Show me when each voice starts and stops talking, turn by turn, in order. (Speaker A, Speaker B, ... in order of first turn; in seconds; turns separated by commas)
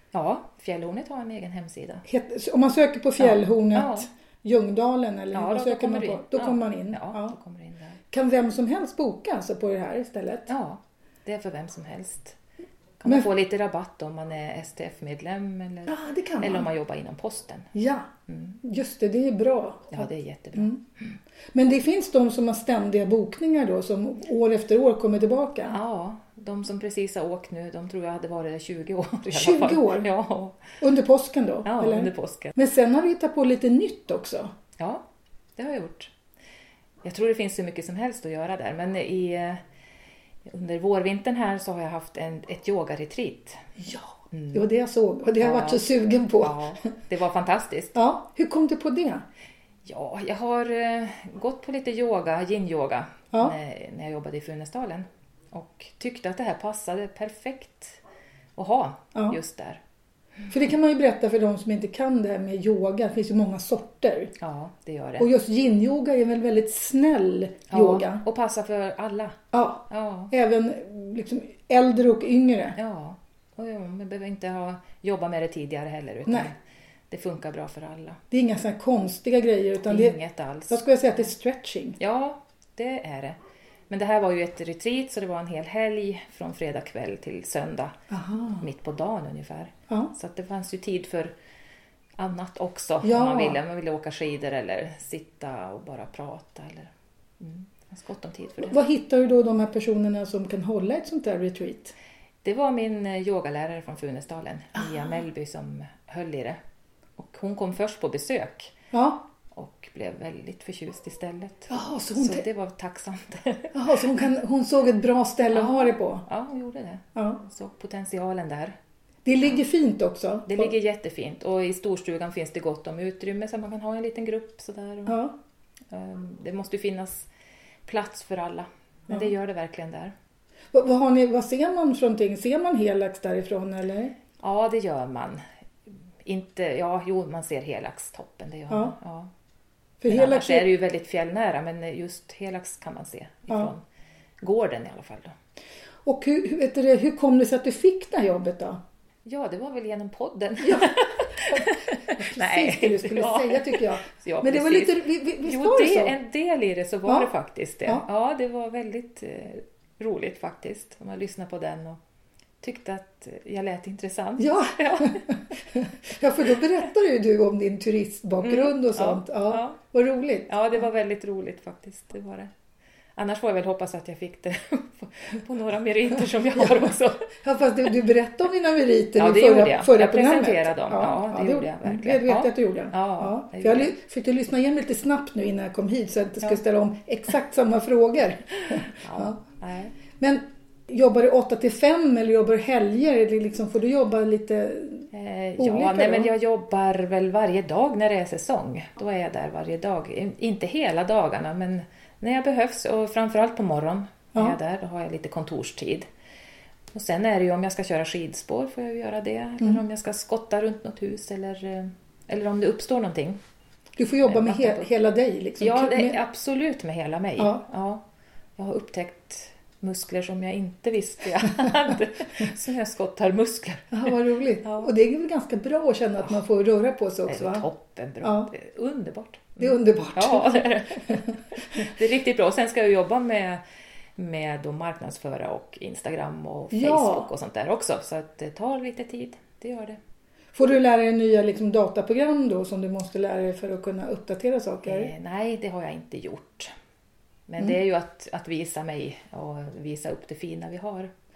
Speaker A: 0.1-2.0, Speaker B: 2.0-7.4, Speaker A: 3.2-4.1, Speaker A: 5.3-8.0, Speaker B: 8.1-10.5, Speaker A: 10.5-12.4, Speaker A: 13.0-17.7, Speaker B: 15.9-16.7, Speaker B: 17.7-18.1, Speaker A: 18.3-18.6, Speaker B: 18.6-20.8, Speaker A: 19.9-21.2, Speaker B: 21.5-25.8, Speaker A: 25.7-30.6, Speaker B: 29.3-30.1, Speaker B: 30.8-34.5, Speaker A: 31.6-32.6, Speaker A: 34.8-35.0, Speaker A: 35.6-36.1, Speaker A: 37.0-39.6, Speaker A: 40.5-43.6, Speaker B: 43.8-46.9, Speaker A: 44.3-44.6, Speaker A: 45.4-48.0, Speaker B: 47.9-49.2, Speaker A: 49.9-58.0, Speaker A: 58.6-59.8, Speaker B: 60.5-64.3, Speaker A: 64.4-65.3, Speaker B: 65.2-68.2, Speaker A: 67.7-70.3, Speaker B: 69.5-72.8, Speaker A: 72.8-76.6, Speaker A: 77.1-78.2, Speaker B: 78.3-80.2, Speaker A: 79.8-80.8, Speaker B: 80.7-82.0, Speaker A: 82.0-83.4, Speaker A: 83.9-88.0, Speaker B: 88.1-88.7, Speaker A: 88.6-91.3, Speaker A: 92.2-98.8, Speaker B: 93.0-93.6, Speaker B: 98.6-101.9, Speaker A: 102.4-106.6, Speaker B: 104.8-105.1, Speaker A: 107.2-108.8, Speaker B: 108.9-109.2, Speaker A: 109.5-114.1, Speaker B: 111.7-112.4, Speaker B: 113.7-116.2, Speaker A: 115.5-118.8, Speaker B: 117.2-117.4, Speaker B: 119.2-120.7, Speaker A: 120.5-125.2, Speaker B: 125.1-125.3, Speaker A: 125.9-127.3, Speaker A: 127.9-130.1, Speaker B: 130.7-134.2, Speaker A: 134.4-135.4, Speaker A: 136.2-139.3, Speaker B: 140.0-140.7, Speaker A: 140.1-143.8, Speaker A: 144.4-145.3, Speaker B: 146.1-148.8, Speaker A: 149.2-162.0, Speaker B: 150.6-156.2, Speaker A: 162.6-165.3, Speaker B: 164.4-170.6, Speaker A: 168.4-169.8, Speaker A: 170.5-172.5, Speaker A: 173.2-177.3, Speaker B: 176.5-189.4, Speaker A: 179.2-183.9, Speaker A: 188.7-189.9, Speaker B: 190.2-196.3, Speaker A: 195.1-206.1, Speaker A: 206.9-213.4, Speaker B: 214.0-216.2, Speaker A: 214.3-214.9, Speaker A: 215.6-218.0, Speaker B: 217.4-217.6, Speaker A: 218.6-224.9, Speaker B: 223.9-227.7, Speaker A: 227.3-233.6, Speaker B: 228.2-228.5, Speaker B: 229.6-231.9, Speaker A: 234.2-240.0, Speaker B: 236.7-237.3, Speaker B: 240.6-245.1, Speaker A: 244.8-246.7, Speaker A: 247.5-251.1